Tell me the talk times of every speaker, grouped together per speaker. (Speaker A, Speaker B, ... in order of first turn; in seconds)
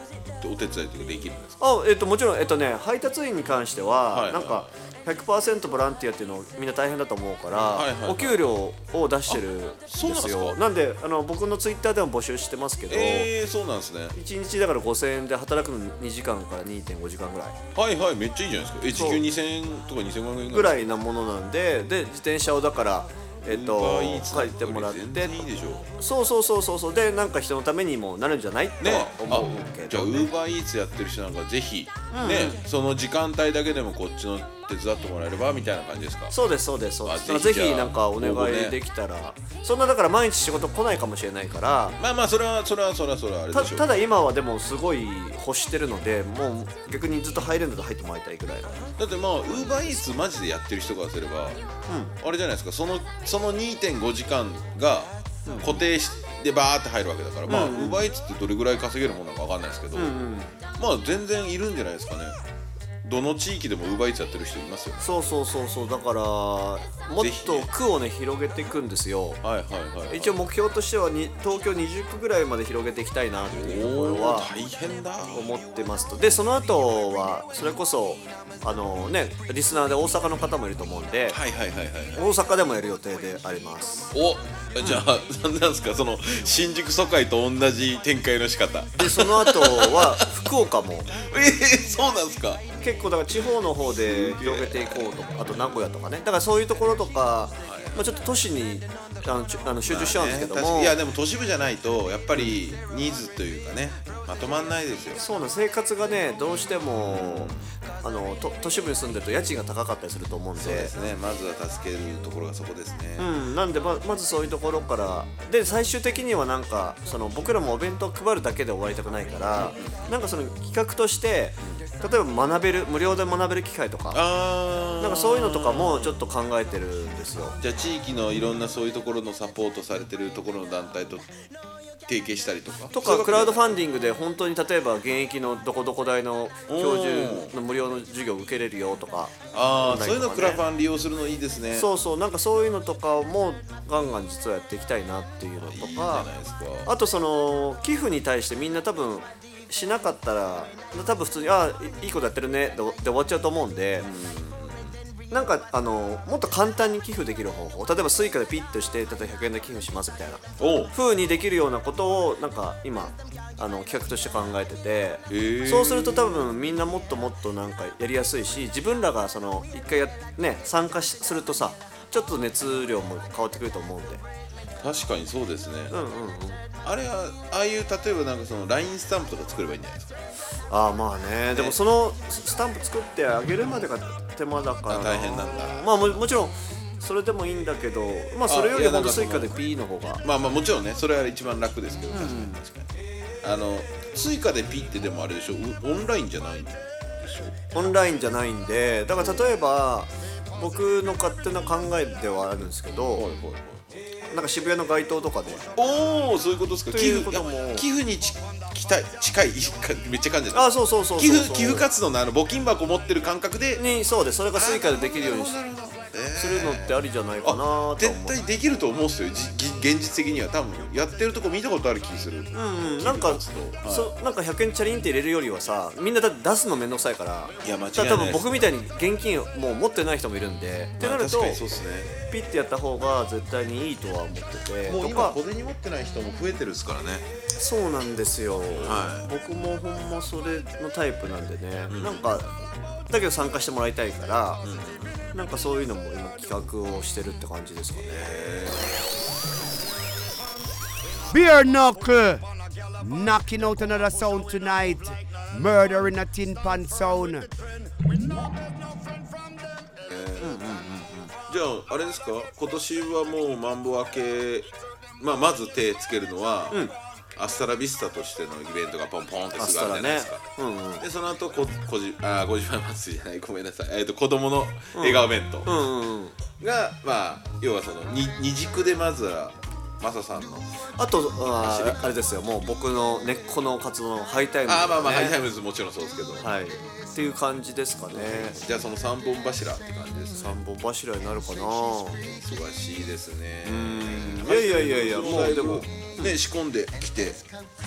Speaker A: 0.4-1.6, 4.1-4.7, 7.7-8.5, 9.3-10.6, 12.9-14.1, 17.7-20.9, 23.4-25.9, 28.8-36.3, 37.0-38.8, 42.0-43.9, 49.0-51.6, 52.2-60.2, 60.8-62.4, 63.0-65.0, 67.2-67.7, 69.4-70.4, 73.5-75.5, 81.3-82.2, 84.1-90.3, 91.1-92.7, 93.9-95.7, 97.6-98.0, 99.8-105.2, 107.0-107.7, 110.6-113.3, 119.5-120.2, 124.1-126.2, 127.6-131.3, 132.1-133.8, 136.7-137.5, 139.5-141.9, 145.6-146.9, 154.0-155.0, 160.6-160.9, 165.3-166.6, 174.8-175.9, 176.8-180.2, 181.5-181.8, 184.9-186.2, 188.5-189.6, 190.2-192.9, 193.4-197.5, 199.2-199.5, 203.1-203.8, 205.7-213.8, 214.5-224.1, 227.6-228.7, 231.0-232.1, 234.8-237.3, 238.7-239.3, 241.9-242.3, 244.6-245.3, 248.1-249.0, 260.1-260.6, 261.5-270.4, 271.0-275.7, 276.6-280.7, 281.6-282.1, 284.6-286.5, 288.1-290.6, 292.2-297.4
Speaker B: 1.6-13.3, 14.1-17.6, 18.9-19.2, 20.5-25.4, 26.0-30.3, 32.1-32.6, 36.3-42.0, 43.5-48.9, 49.5-49.9, 51.9-52.1, 55.5-55.8, 57.5-58.0, 59.9-60.5, 65.0-69.4, 70.1-74.5, 75.3-81.4, 82.1-84.1, 84.8-85.0, 89.0-91.1, 92.8-101.0, 105.2-110.9, 113.2-124.2, 125.0-127.6, 132.9-140.6, 141.7-146.3, 146.8-154.1, 155.3-174.2, 175.9-176.6, 180.7-190.2, 192.1-192.6, 197.7-203.3, 204.2-205.7, 206.9-207.8, 210.5-211.9, 213.8-215.6, 216.3-218.4, 222.5-231.6, 232.2-235.4, 237.6-242.5, 243.1-244.6, 245.3-248.3, 260.4-261.3, 266.7-266.9, 269.6-271.0, 274.9-276.4, 281.0-285.4, 286.4-288.6, 290.3-292.2, 293.6-296.4
Speaker C: 251.3-252.4, 253.0-257.5